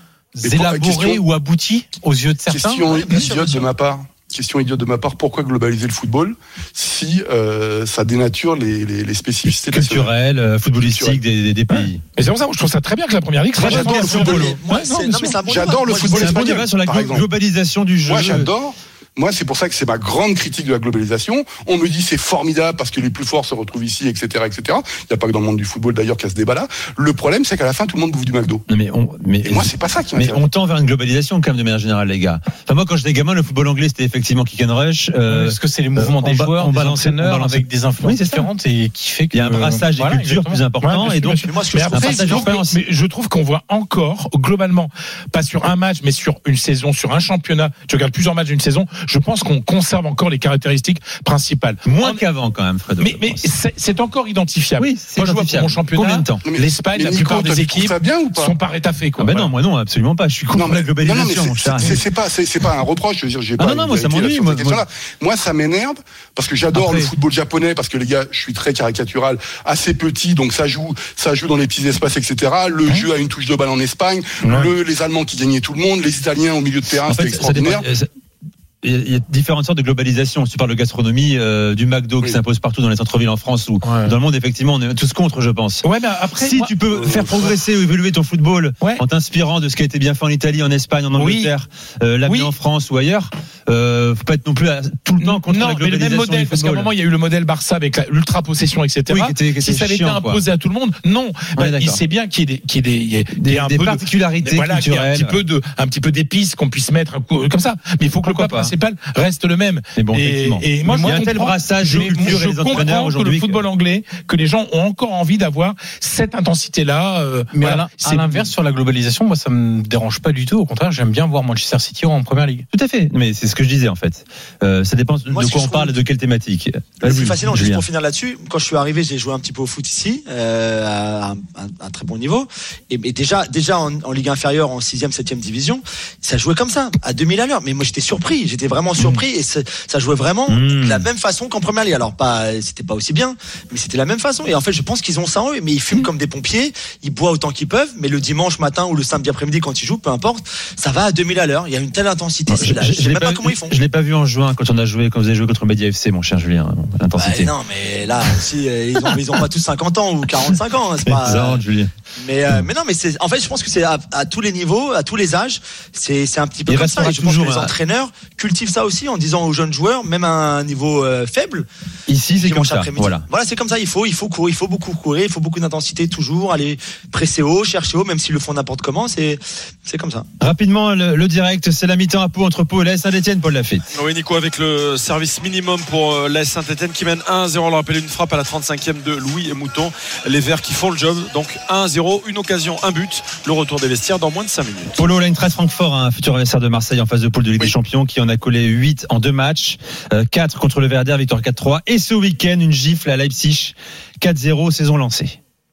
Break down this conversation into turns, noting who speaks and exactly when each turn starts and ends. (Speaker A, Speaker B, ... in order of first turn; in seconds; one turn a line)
Speaker A: 0.3-3.6
Speaker B: 0.4-1.2
Speaker B: 2.5-10.1
Speaker C: 9.4-12.0
Speaker B: 10.8-11.2
Speaker D: 11.7-16.4
Speaker E: 13.6-16.5
Speaker B: 13.6-14.5
Speaker B: 15.4-17.3
Speaker C: 16.1-18.5
Speaker B: 18.0-28.6
Speaker C: 28.7-38.5
Speaker B: 29.4-30.5
Speaker A: 35.3-40.6
Speaker C: 39.3-42.8
Speaker D: 40.8-52.2
Speaker E: 41.3-42.5
Speaker C: 51.8-53.4
Speaker D: 53.0-59.5
Speaker C: 54.8-56.4
Speaker B: 56.4-58.5
Speaker C: 59.2-62.0
Speaker B: 60.5-77.8
Speaker C: 63.6-64.8
Speaker C: 66.7-67.1
Speaker C: 77.0-78.1
Speaker C: 78.8-85.8
Speaker D: 83.8-84.1
Speaker D: 85.8-86.8
Speaker C: 86.3-96.9
Speaker B: 86.9-87.2
Speaker D: 91.1-91.5
Speaker D: 92.2-92.5
Speaker D: 95.2-118.5
Speaker C: 99.1-100.4
Speaker C: 101.5-102.0
Speaker C: 103.3-105.4
Speaker C: 108.2-108.7
Speaker C: 110.0-113.6
Speaker A: 110.8-111.2
Speaker A: 111.9-112.9
Speaker A: 117.5-122.6
Speaker C: 122.7-127.8
Speaker E: 125.3-126.0
Speaker E: 127.0-153.8
Speaker C: 140.5-141.1
Speaker C: 152.5-157.5
Speaker E: 157.1-161.6
Speaker C: 161.0-161.9
Speaker E: 162.2-171.7
Speaker C: 166.7-167.7
Speaker C: 172.1-173.2
Speaker E: 172.3-180.3
Speaker C: 180.4-183.8
Speaker F: 183.9-194.9
Speaker C: 194.9-205.4